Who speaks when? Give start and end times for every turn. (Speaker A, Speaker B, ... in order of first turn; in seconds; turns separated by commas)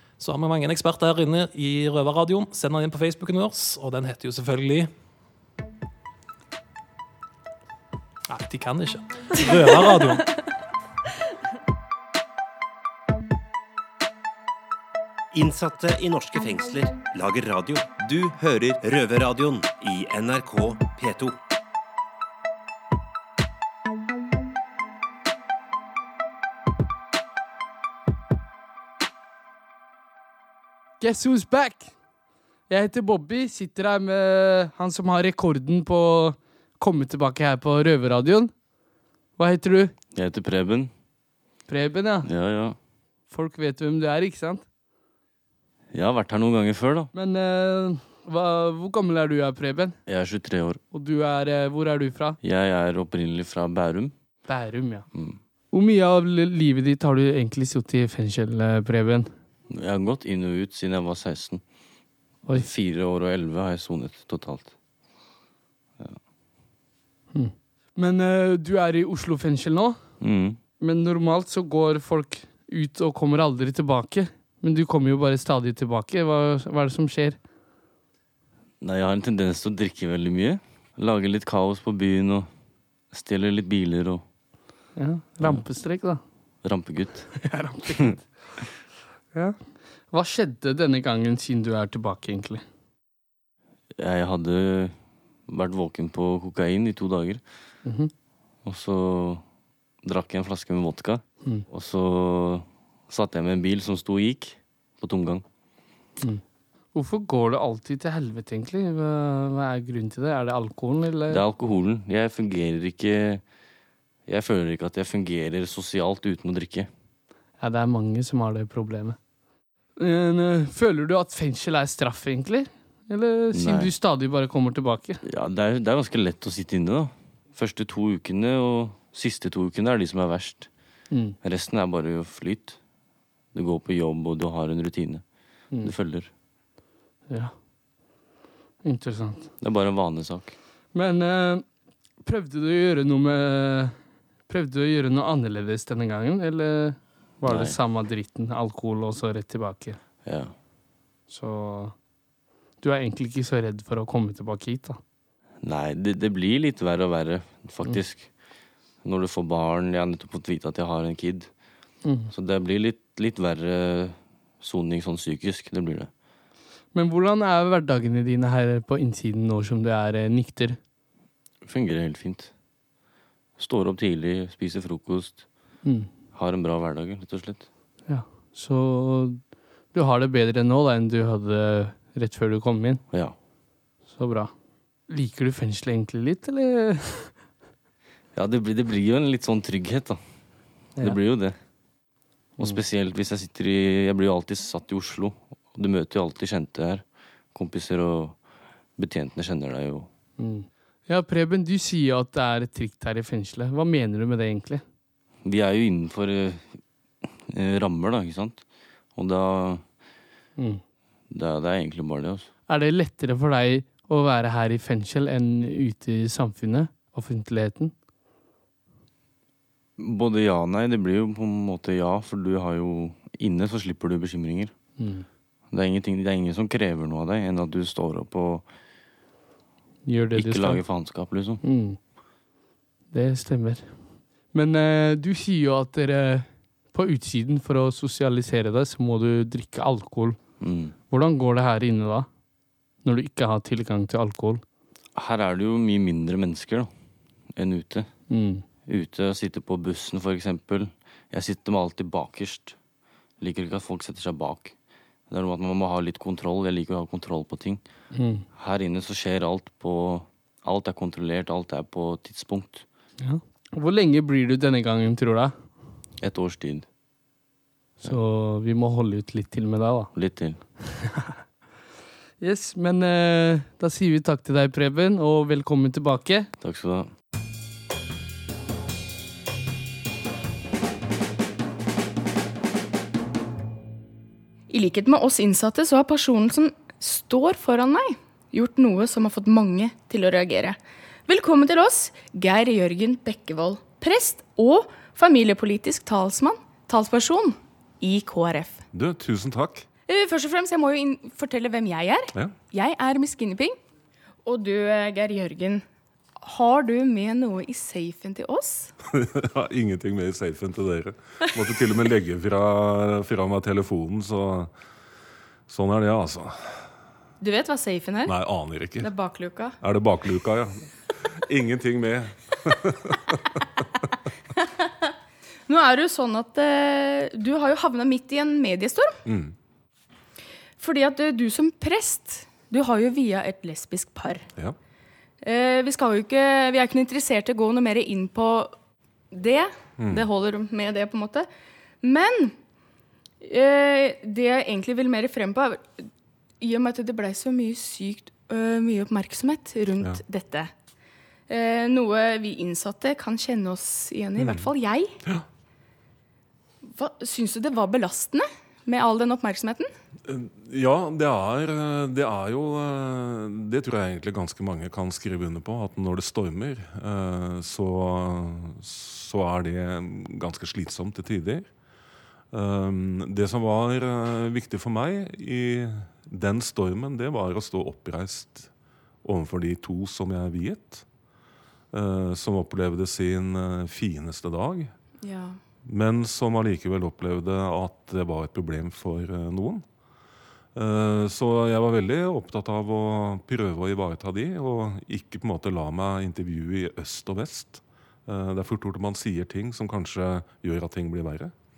Speaker A: 0.2-4.9, Speaker A: 8.3-10.2, Speaker B: 15.3-21.4, Speaker C: 31.0-31.9, Speaker C: 32.7-38.5, Speaker C: 39.4-39.9, Speaker D: 40.1-40.9, Speaker C: 41.7-42.3, Speaker D: 42.2-42.8, Speaker C: 43.3-44.6, Speaker D: 45.9-47.1, Speaker C: 47.1-50.0, Speaker D: 50.0-50.8, Speaker C: 50.9-52.4, Speaker D: 52.4-54.1, Speaker C: 54.5-55.1, Speaker D: 55.1-55.4, Speaker C: 55.7-59.3, Speaker D: 59.7-61.6, Speaker D: 62.5-64.7, Speaker C: 67.3-70.0, Speaker D: 70.2-70.6, Speaker C: 70.8-77.4, Speaker D: 78.8-82.5, Speaker D: 83.1-84.2, Speaker C: 85.0-86.2, Speaker D: 86.6-87.4, Speaker C: 87.3-88.2, Speaker C: 90.1-92.6, Speaker D: 94.0-95.0, Speaker D: 95.5-97.4, Speaker C: 97.8-98.1, Speaker D: 98.6-99.4, Speaker D: 100.0-105.4, Speaker C: 106.9-111.4, Speaker D: 111.3-113.4, Speaker D: 114.3-116.9, Speaker C: 117.6-119.2, Speaker C: 120.0-125.2, Speaker D: 123.5-123.9, Speaker D: 125.2-130.7, Speaker C: 131.1-131.3, Speaker D: 131.4-132.8, Speaker D: 133.5-135.2, Speaker D: 135.8-136.3, Speaker C: 138.8-139.5, Speaker D: 139.6-140.6, Speaker C: 140.9-141.6, Speaker C: 142.2-143.9, Speaker C: 144.5-150.0, Speaker D: 147.4-147.8, Speaker D: 150.2-150.5, Speaker C: 151.3-151.9, Speaker C: 152.8-155.0, Speaker D: 155.6-158.3, Speaker D: 159.0-161.5, Speaker C: 162.0-162.3, Speaker D: 162.3-166.1, Speaker C: 166.9-170.8, Speaker D: 171.6-172.5, Speaker D: 173.6-175.4, Speaker C: 175.8-176.1, Speaker D: 176.3-177.7, Speaker C: 178.1-179.4, Speaker C: 179.9-183.0, Speaker D: 183.1-183.3, Speaker C: 184.1-184.5, Speaker C: 185.1-187.3, Speaker D: 188.3-190.2, Speaker D: 191.0-191.5, Speaker D: 192.6-198.4, Speaker D: 199.0-200.1, Speaker C: 200.4-204.8, Speaker D: 205.4-206.8, Speaker D: 207.5-209.8, Speaker D: 211.3-212.5, Speaker C: 212.7-217.9, Speaker D: 220.0-224.7, Speaker C: 225.0-225.2, Speaker D: 225.7-228.7, Speaker C: 230.1-230.8, Speaker D: 230.3-231.6, Speaker C: 231.6-232.0, Speaker C: 233.1-234.0, Speaker C: 234.5-240.4, Speaker D: 240.6-240.9, Speaker C: 241.1-242.3, Speaker C: 243.0-244.6, Speaker D: 245.2-246.9, Speaker D: 247.5-248.1, Speaker C: 248.3-248.6, Speaker D: 248.8-252.8, Speaker D: 253.4-254.7, Speaker D: 255.3-257.8, Speaker C: 258.1-258.4, Speaker D: 258.5-262.8, Speaker C: 263.2-265.5, Speaker D: 266.2-266.9, Speaker C: 268.0-270.1, Speaker D: 270.1-270.6, Speaker C: 270.9-271.4, Speaker C: 272.4-276.5, Speaker D: 276.6-277.1, Speaker E: 284.7-298.8, Speaker F: 298.9-299.9, Speaker E: 300.1-303.8, Speaker E: 304.4-305.8, Speaker E: 306.4-308.9, Speaker F: 309.1-314.7, Speaker F: 315.7-316.6, Speaker E: 317.4-318.3, Speaker F: 318.2-319.1, Speaker E: 319.0-319.8, Speaker F: 319.8-320.8, Speaker F: 321.4-323.6, Speaker E: 325.7-329.1, Speaker F: 329.2-329.5, Speaker E: 330.8-334.5, Speaker E: 335.4-338.7, Speaker E: 339.3-341.5, Speaker F: 340.0-340.2, Speaker E: 342.0-342.5, Speaker E: 343.4-345.9, Speaker E: 346.6-350.7, Speaker E: 351.5-355.1, Speaker F: 354.4-354.7, Speaker E: 356.8-359.9, Speaker F: 360.2-371.7, Speaker F: 372.5-378.7, Speaker F: 379.2-381.0, Speaker F: 381.9-384.9, Speaker E: 385.2-385.6, Speaker F: 385.8-389.8, Speaker F: 390.7-401.5